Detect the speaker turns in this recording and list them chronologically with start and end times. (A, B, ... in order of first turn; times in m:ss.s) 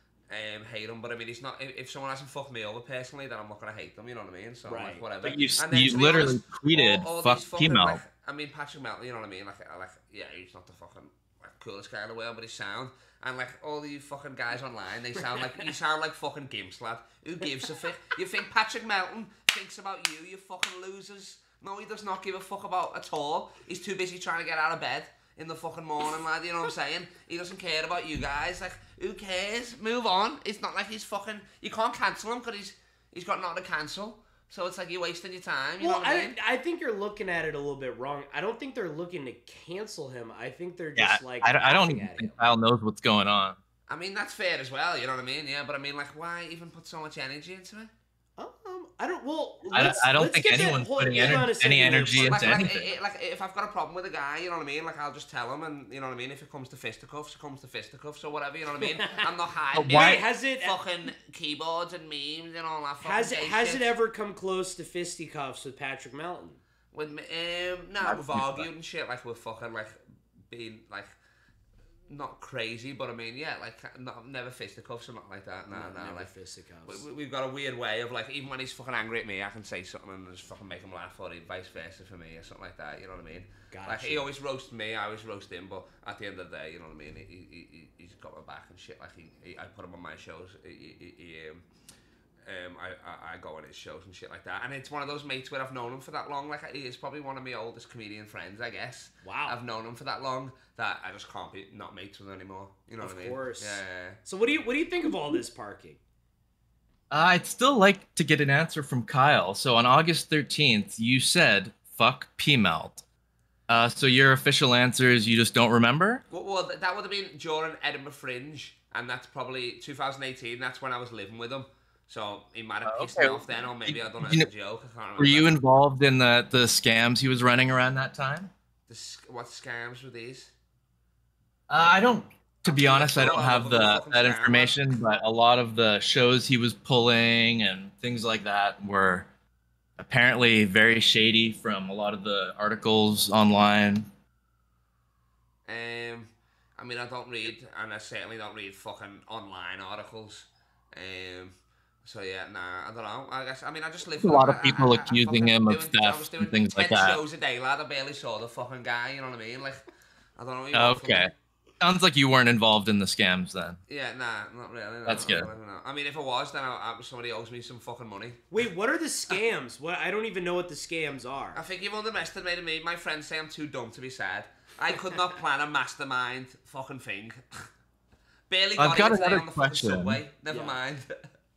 0:00.3-0:36.3 A
0:04.6-0:05.0 B
0:05.2-0:08.0 C
0:35.8-0:42.5 B
0:40.9-0:43.6 C
0:43.9-0:47.9 A
0:48.4-0:52.5 B
0:49.7-0:52.9 C
0:51.1-1:03.9 A
0:59.7-1:00.2 C
0:59.9-1:00.8 B
1:03.0-1:06.6 B
1:06.9-1:11.1 A
1:08.0-1:08.7 C
1:12.1-1:16.3 A
1:15.7-1:17.0 B
1:16.8-1:31.6 A
1:23.7-1:24.2 B
1:32.4-1:44.2 A
1:39.2-1:39.6 B
1:43.0-1:46.0 B
1:47.1-1:53.0 C
1:53.7-1:56.2 C
1:56.3-2:05.6 A
2:02.8-2:04.5 C
2:05.2-2:08.5 C
2:08.9-2:10.5 A
2:11.7-2:19.3 C
2:12.6-2:14.8 A
2:20.0-2:24.1 C
2:25.7-2:39.8 A
2:34.2-2:37.2 C
2:40.4-2:41.3 A
2:40.7-2:43.8 C
2:43.9-2:48.4 A
2:45.0-2:45.5 C
2:48.5-2:51.6 B
2:51.5-2:57.6 A
2:58.5-3:01.1 A
2:58.8-3:00.2 C
3:00.5-3:00.8 B